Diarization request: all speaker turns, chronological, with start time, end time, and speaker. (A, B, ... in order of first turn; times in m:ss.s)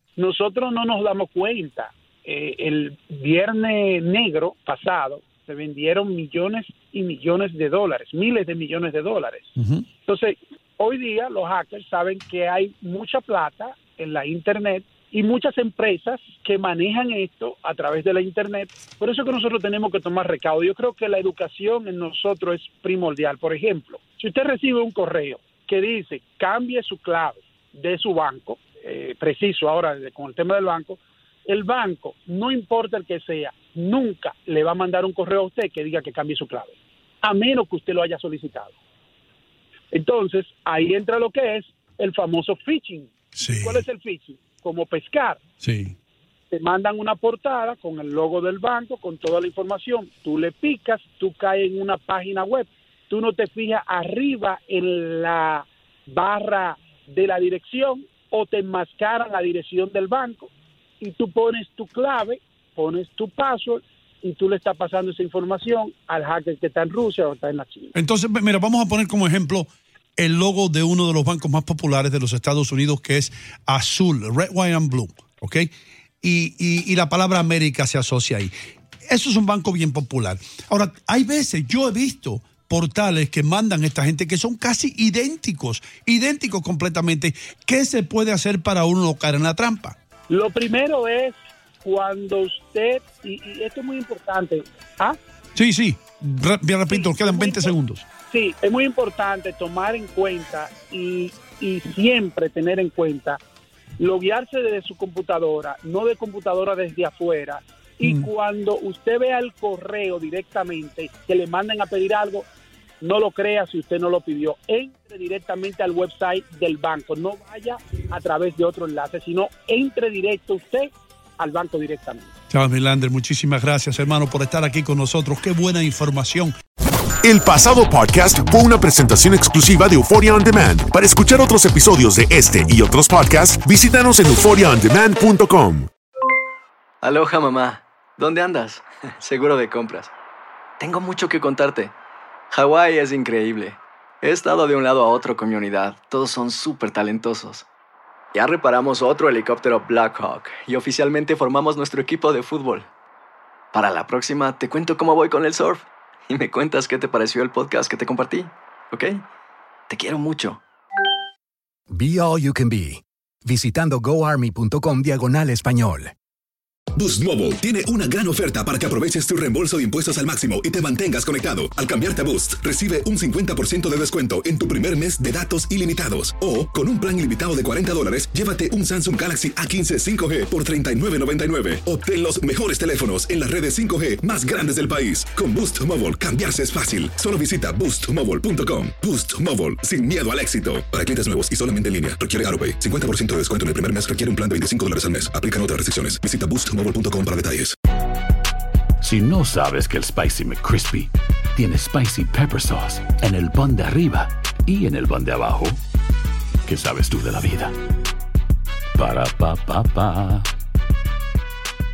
0:00.2-0:09.5 A
0:10.0-0:38.7 A
0:39.9-0:45.4 A
0:43.4-0:43.8 B
0:45.6-0:45.9 B
0:46.5-1:07.9 A
1:07.9-1:15.7 B
1:16.2-1:18.5 B
1:19.1-1:30.0 B
1:30.3-1:35.2 A
1:35.6-1:38.0 B
1:36.9-1:37.7 A
1:38.3-1:43.4 A
1:44.0-1:52.5 A
1:53.0-2:02.3 A
2:02.5-2:06.5 B
2:07.2-2:15.9 C
2:17.0-2:20.1 D
2:20.8-2:21.9 D
2:22.5-2:27.6 D
2:28.3-2:32.9 D
2:33.7-2:39.2 D
2:39.9-2:40.6 D
2:41.9-2:46.1 E
2:46.9-3:17.7 F
3:19.0-3:20.0 G
3:21.6-3:24.2 G
3:24.7-3:25.4 G
3:26.7-3:27.6 G
3:29.0-3:29.3 G